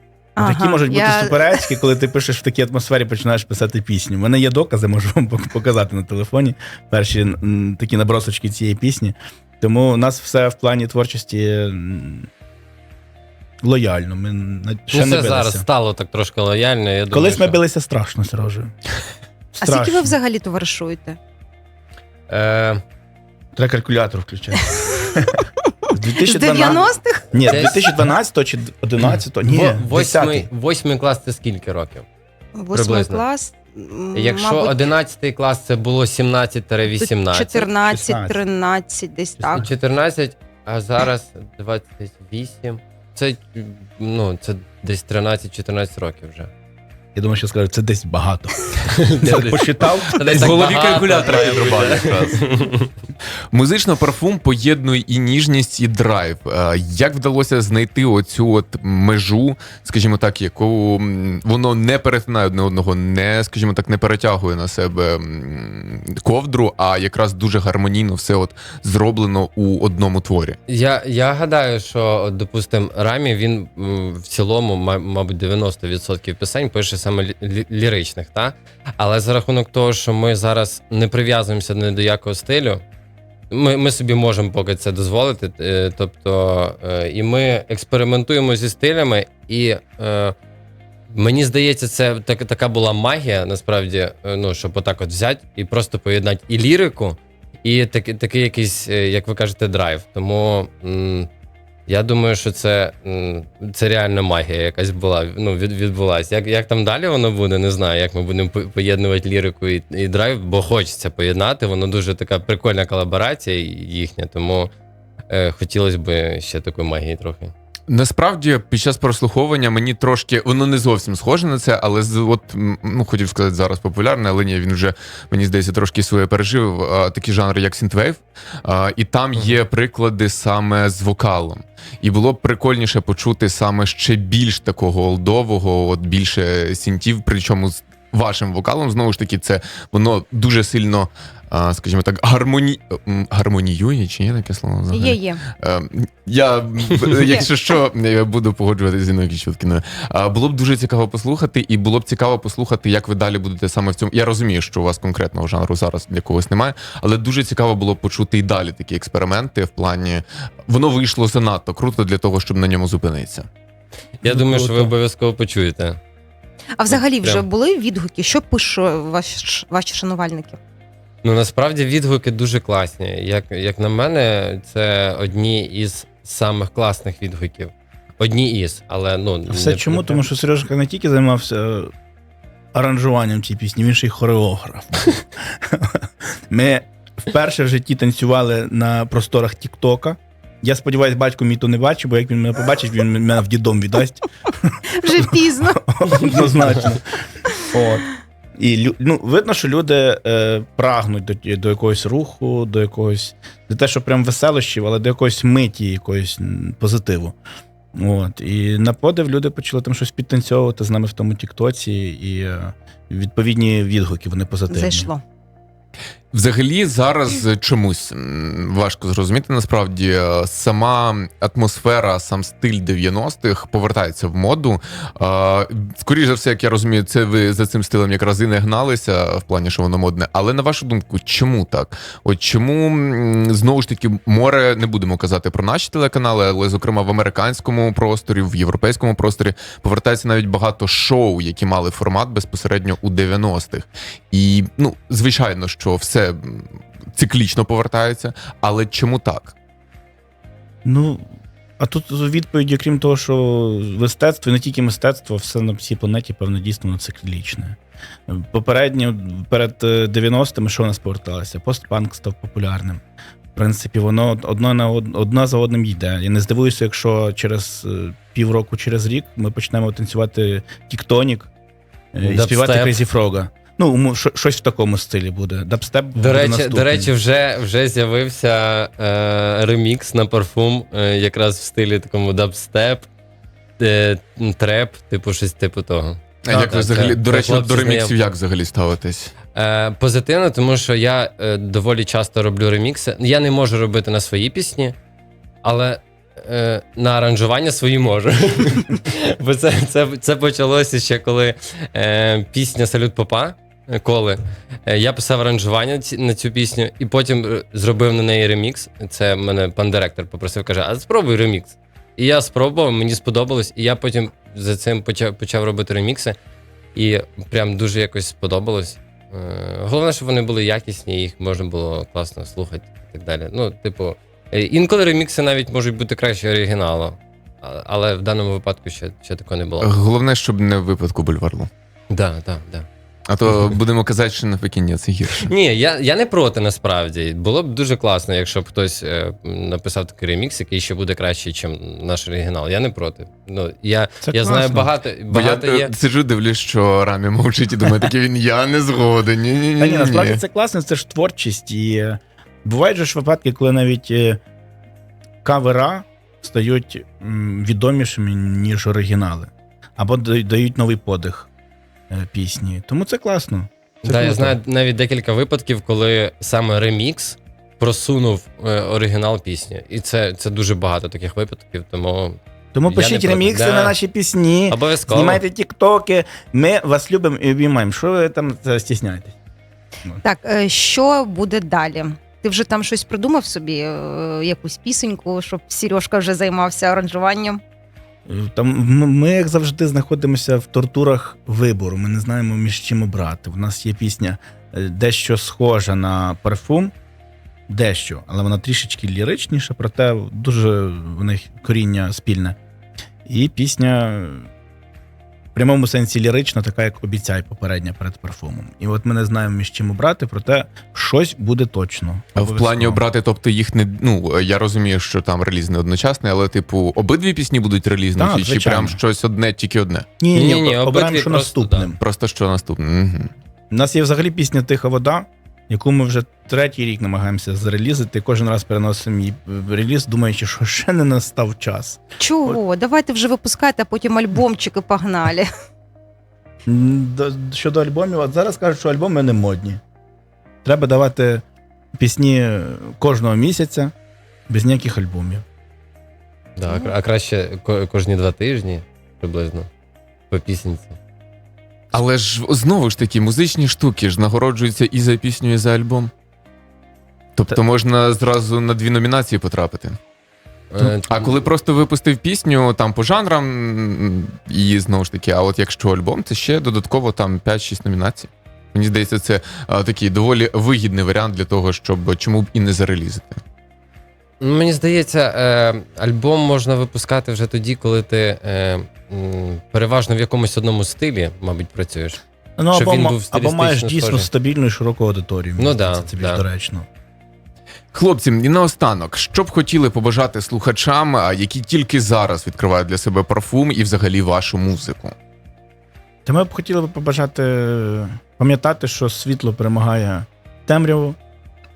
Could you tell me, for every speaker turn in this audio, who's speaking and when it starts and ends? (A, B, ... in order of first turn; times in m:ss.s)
0:00.4-0:01.7 A
0:00.4-0:12.3 B
0:13.6-0:15.6 B
0:14.9-0:17.6 C
0:17.1-0:18.7 B
0:19.5-0:20.2 B
0:19.6-0:21.2 A
0:22.3-0:22.8 C
0:23.5-0:30.5 B
0:26.2-0:27.3 A
0:27.4-0:28.0 C
0:29.1-0:32.0 C
0:32.6-0:34.8 A
0:32.7-0:33.2 C
0:34.1-0:37.7 C
0:37.0-0:39.7 A
0:37.9-0:38.4 B
0:39.4-0:46.5 C
0:47.1-0:50.6 B
0:48.9-0:52.9 C
0:50.3-0:52.4 D
0:53.5-1:10.6 D
1:10.7-1:22.8 C
1:23.5-1:30.4 C
1:31.1-1:41.3 C
1:41.9-1:54.7 C
1:55.3-1:57.5 C
1:57.9-2:43.5 D
2:24.9-2:25.4 A
2:44.2-2:46.0 C
2:44.2-2:44.9 B
2:46.8-2:50.6 A
2:46.9-2:47.4 C
2:51.2-3:00.2 C
2:59.5-3:01.9 B
3:02.7-3:17.1 B
3:15.0-3:16.5 A
3:17.7-3:27.4 B
3:27.9-3:35.1 B
3:34.7-3:35.2 A
3:36.3-4:09.5 D
4:10.8-4:11.2 B
4:11.8-4:23.0 B
4:23.5-4:31.5 B
4:32.1-4:37.1 B
4:32.2-4:33.0 C
4:36.2-4:43.1 C
4:43.8-4:48.1 C
4:46.4-4:49.3 D
4:49.5-4:55.0 C
4:55.6-5:16.4 C
5:16.9-5:29.9 C
5:29.8-5:31.7 D
5:32.1-5:32.9 C
5:33.3-5:35.5 D
5:33.5-5:33.7 C
5:35.4-5:45.9 C
5:44.2-5:44.9 B
5:45.3-5:50.4 D
5:49.8-5:54.4 B
5:55.4-6:01.5 B
6:02.1-6:04.6 B
6:04.0-6:14.0 C
6:12.7-6:19.4 B
6:14.7-6:15.4 C
6:20.2-6:27.6 A
6:28.2-6:36.9 B
6:37.7-6:42.6 B
6:43.2-6:44.5 B
6:45.5-6:53.0 B
6:52.3-7:00.0 D
6:58.2-6:59.0 B
7:00.2-7:02.0 B
7:00.3-7:01.9 C
7:02.0-7:03.3 D
7:03.7-7:12.6 B
7:12.2-7:15.5 A
7:16.6-7:19.8 B
7:20.6-7:21.4 B
7:22.0-7:23.9 B
7:24.5-7:25.4 B
7:26.6-7:29.7 C
7:26.7-7:26.9 A
7:30.3-7:31.0 C
7:31.9-7:36.1 D
7:37.4-7:40.0 D
7:40.7-7:41.3 C
7:41.0-7:53.4 D
7:54.4-8:04.3 C
8:02.6-8:06.9 B
8:05.6-8:06.4 C
8:07.9-8:15.1 D
8:16.2-8:21.2 B